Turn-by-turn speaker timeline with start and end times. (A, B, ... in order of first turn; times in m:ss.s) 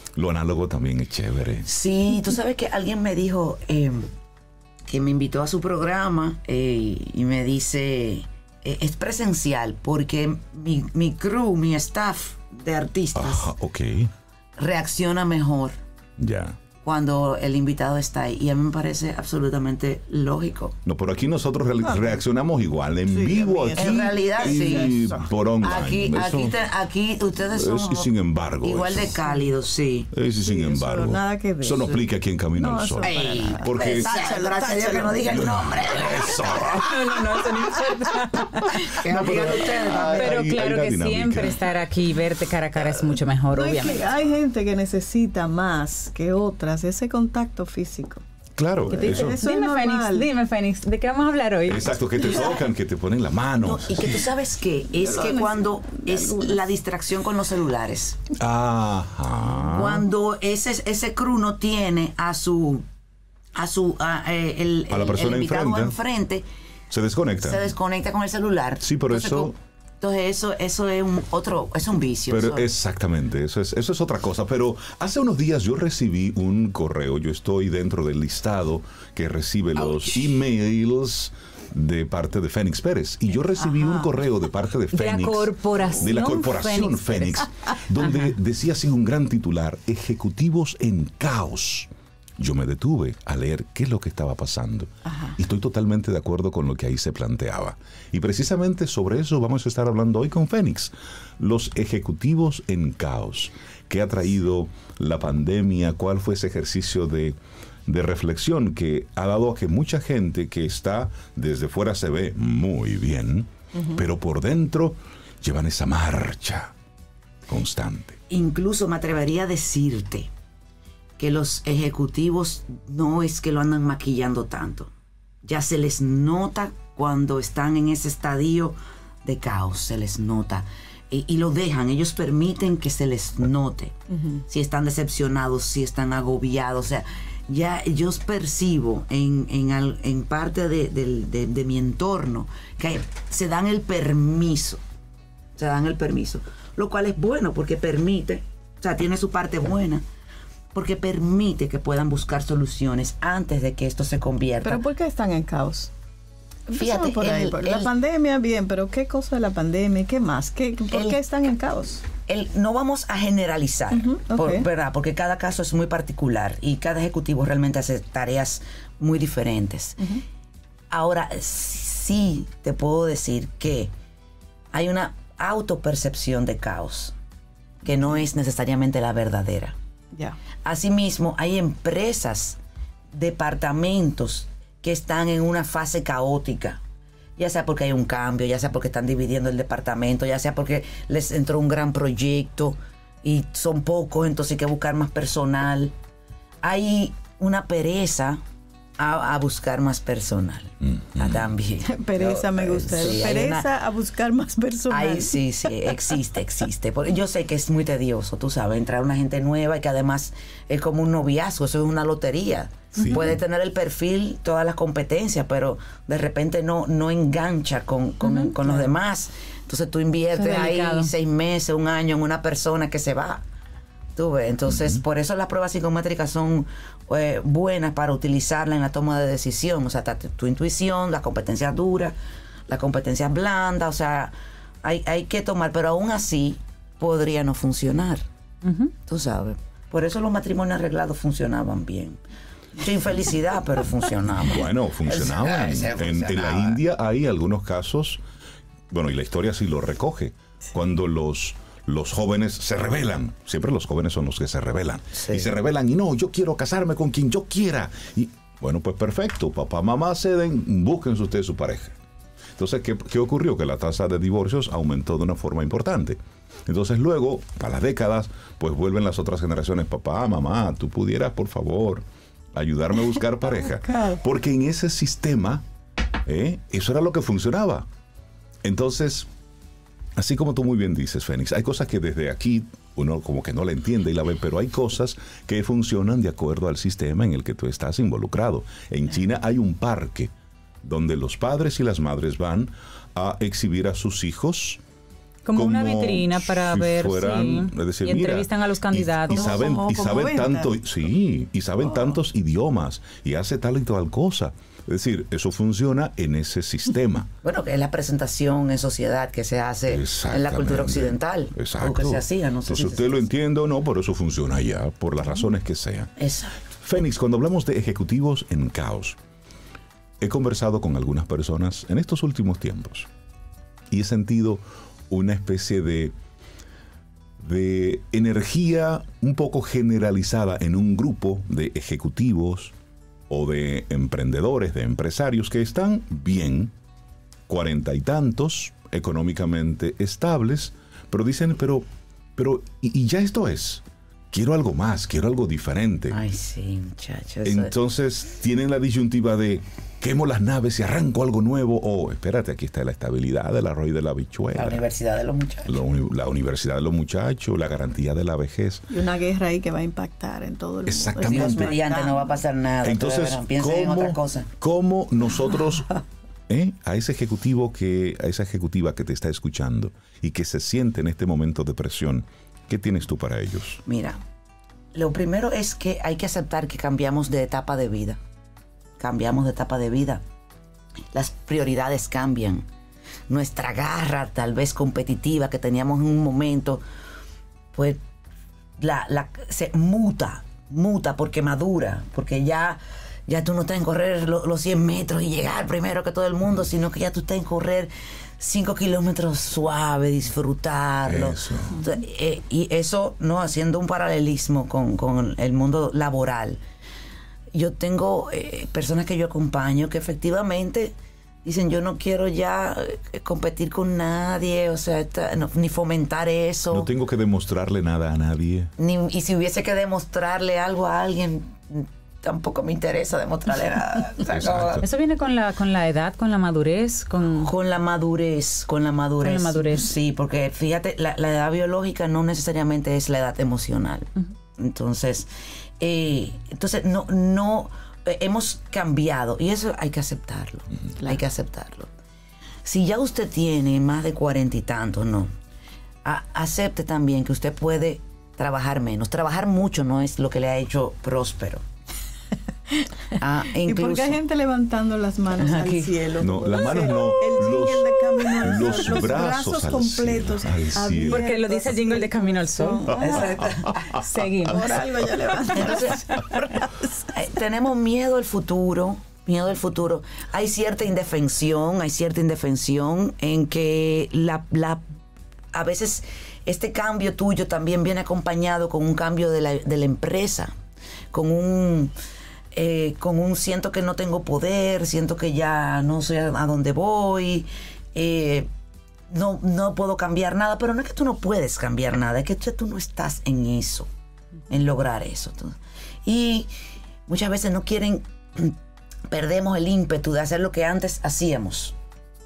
0:00.2-0:01.7 A
0:01.6-0:04.1 B
0:04.9-0:13.5 B
0:13.2-0:14.1 A
0:14.6-0:15.8 B
0:16.2-0:16.6 A
0:16.8-0:20.8 B
0:20.8-0:26.6 A
0:21.8-0:22.2 C
0:23.1-0:25.3 C
0:23.8-0:25.0 B
0:25.6-0:30.1 B
0:27.5-0:29.0 A
0:30.1-0:34.1 A
0:30.4-0:32.0 C
0:32.6-0:35.4 C
0:33.0-0:36.8 B
0:35.3-0:37.5 A
0:36.8-0:39.3 D
0:38.6-0:41.6 A
0:38.8-0:40.5 B
0:40.0-0:44.0 D
0:43.5-0:48.2 C
0:48.6-0:49.4 A
0:48.9-0:50.3 C
0:49.0-0:51.9 D
0:51.7-0:54.1 A
0:52.3-0:52.6 C
0:53.6-0:58.2 B
0:55.0-0:56.6 C
0:58.4-1:00.0 A
0:59.6-1:02.8 B
1:03.6-1:06.4 B
1:04.9-1:06.0 A
1:06.9-1:07.7 A
1:07.4-1:12.7 B
1:08.8-1:09.5 A
1:12.3-1:56.7 A
1:19.8-1:20.4 B
1:24.9-1:27.5 D
1:35.1-1:35.4 C
1:57.5-1:58.2 A
1:58.3-2:00.3 B
2:01.2-2:04.9 B
2:05.4-2:24.8 B
2:14.2-2:14.4 C
2:25.6-2:30.0 B
2:30.7-2:34.8 B
2:34.6-2:35.9 C
2:36.7-2:42.1 C
2:36.7-2:37.9 B
2:40.9-2:41.2 B
2:42.2-2:50.1 B
2:43.9-2:44.7 C
2:50.9-2:53.9 B
2:54.7-2:57.2 B
2:57.8-2:59.8 B
3:00.6-3:02.6 B
3:03.1-3:06.8 B
3:07.4-3:15.9 B
3:16.6-3:18.4 B
3:19.0-3:23.7 B
3:21.8-3:26.0 C
3:24.9-3:43.4 B
3:33.0-3:33.2 C
3:38.2-3:38.6 D
3:40.3-3:41.1 D
3:44.2-3:52.2 B
3:52.7-3:58.2 B
3:58.6-3:58.9 D
3:59.1-4:02.2 B
4:02.8-4:06.8 B
4:04.5-4:08.2 A
4:08.9-4:22.0 A
4:15.1-4:15.6 B
4:22.6-4:35.6 A
4:33.9-4:34.2 C
4:36.3-4:37.9 A
4:38.6-4:39.3 A
4:40.2-4:50.3 A
4:50.8-4:54.8 A
4:55.4-4:59.8 D
4:55.6-5:07.3 A
4:59.3-5:00.8 C
5:01.8-5:02.2 C
5:07.4-5:13.3 B
5:09.9-5:16.1 A
5:16.2-5:16.6 B
5:16.8-5:19.2 A
5:20.2-5:23.1 A
5:23.9-5:26.1 A
5:27.4-5:32.7 A
5:33.3-5:36.7 A
5:37.5-5:41.9 A
5:42.4-5:46.2 A
5:46.1-5:47.8 B
5:47.4-5:54.8 A
5:54.5-5:55.8 B
5:55.7-5:58.9 A
5:58.9-6:02.3 C
6:00.9-6:01.8 A
6:01.2-6:04.5 B
6:02.8-6:05.9 A
6:06.5-6:13.8 A
6:13.8-6:14.2 B
6:14.9-6:18.2 B
6:19.0-6:20.2 B
6:21.1-6:22.6 B
6:23.3-6:26.8 B
6:27.7-6:28.0 B
6:28.8-6:46.6 B
6:41.1-6:41.8 A
6:47.5-6:56.9 B
6:56.7-6:58.7 A
6:58.8-7:04.8 B
7:04.3-7:04.8 A
7:04.8-7:07.5 D
7:07.4-7:15.3 B
7:09.2-7:09.9 D
7:15.8-7:21.9 B
7:22.6-7:25.3 B
7:26.0-7:31.6 B
7:33.2-7:34.2 B
7:33.6-7:43.4 C
7:35.4-7:35.9 B
7:36.2-7:41.3 A
7:41.0-7:42.9 D
7:42.9-7:43.9 B
7:43.9-7:44.7 D
7:44.5-7:47.1 C
7:45.5-7:46.1 B
7:47.1-7:54.8 B
7:55.5-8:00.5 B
8:01.1-8:01.9 B
8:02.5-8:08.5 B
8:09.1-8:13.9 B
8:14.5-8:16.5 B
8:17.1-8:18.6 B
8:19.1-8:21.8 B